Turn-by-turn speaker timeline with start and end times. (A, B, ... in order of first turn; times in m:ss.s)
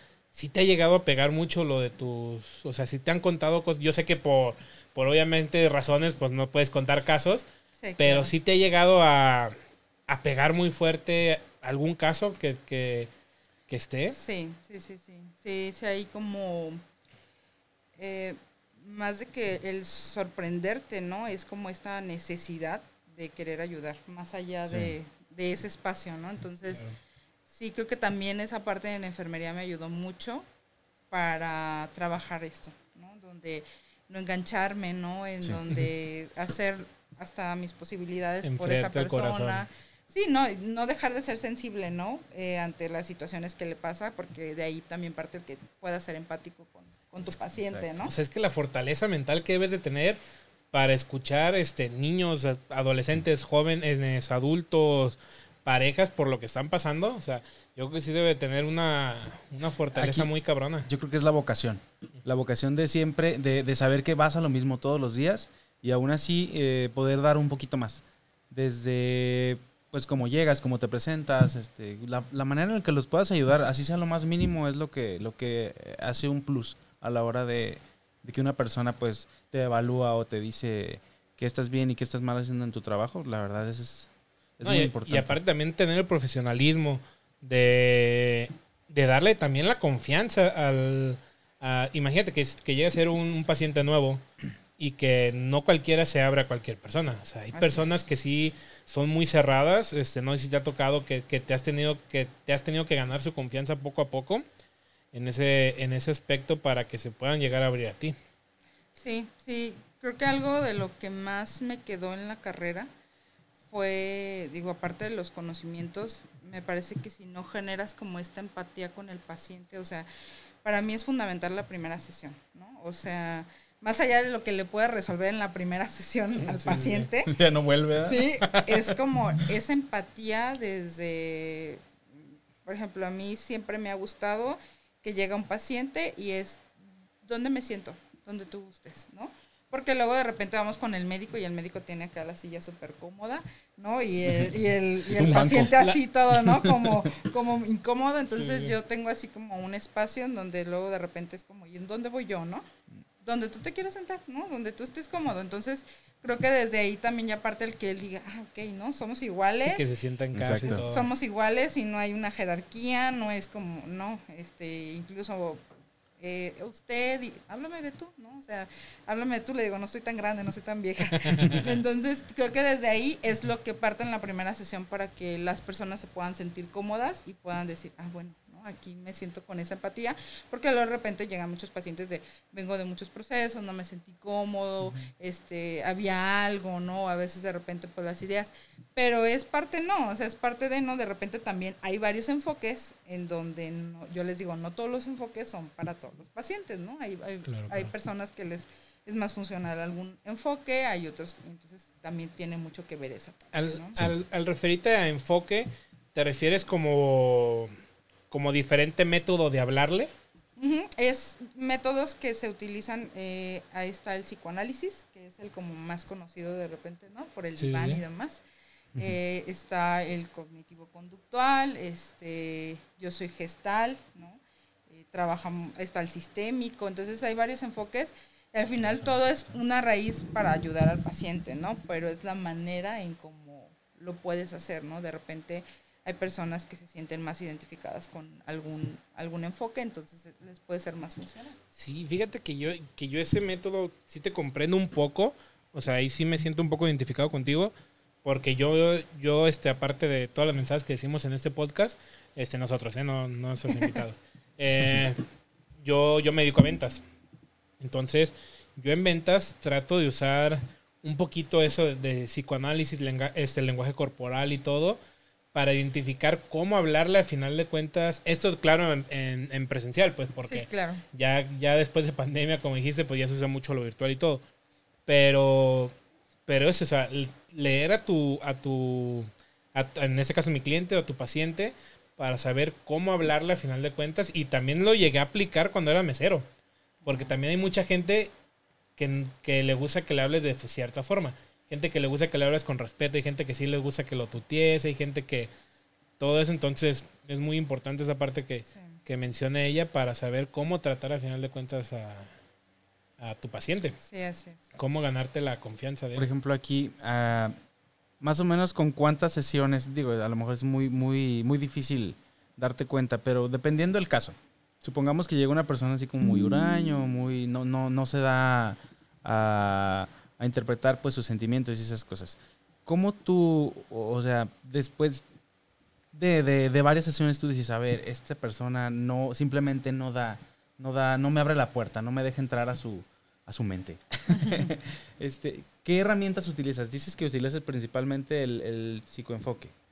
0:00.3-0:07.4 A
0:07.8-0:08.3 B
0:08.0-0:09.5 A
0:10.1-0:13.1 A
0:13.7-0:14.2 A
0:14.1-0:16.8 B
0:18.0-0:26.8 B
0:24.7-0:24.9 C
0:27.5-0:30.4 B
0:31.1-0:48.1 B
0:35.4-0:35.8 C
0:38.4-0:39.6 A
0:47.6-0:47.9 C
0:48.1-0:50.2 A
0:50.7-1:00.9 A
0:59.9-1:00.3 C
1:00.8-1:25.4 C
1:24.6-1:34.2 A
1:34.8-1:44.4 A
1:37.5-1:38.0 B
1:45.1-1:48.1 A
1:49.0-1:52.9 B
1:53.7-2:00.1 B
2:00.6-2:07.3 B
2:06.4-2:07.1 A
2:07.2-2:09.0 C
2:08.0-2:32.7 B
2:24.3-2:27.1 C
2:28.3-2:28.7 A
2:33.2-2:39.9 B
2:39.6-2:41.1 A
2:40.3-2:40.8 C
2:40.6-2:45.6 B
2:46.2-3:24.0 B
2:51.2-2:51.6 A
3:17.5-3:17.9 A
3:23.5-3:27.7 A
3:28.3-3:30.1 A
3:30.6-3:38.4 B
3:37.6-3:38.0 A
3:39.0-4:01.6 B
3:48.8-3:49.5 C
4:01.7-4:07.7 A
4:08.2-4:15.2 A
4:15.8-4:17.0 A
4:17.8-4:25.0 A
4:25.5-4:34.4 A
4:30.4-4:31.0 B
4:35.1-4:35.9 A
4:36.5-4:46.4 A
4:47.0-4:48.3 A
4:49.0-4:55.5 A
4:56.2-5:02.3 A
4:58.7-4:59.0 B
5:03.2-5:04.0 A
5:04.0-5:04.6 B
5:04.7-5:06.3 A
5:06.1-5:07.6 C
5:08.2-5:25.2 C
5:26.1-5:39.7 C
5:34.3-5:34.7 B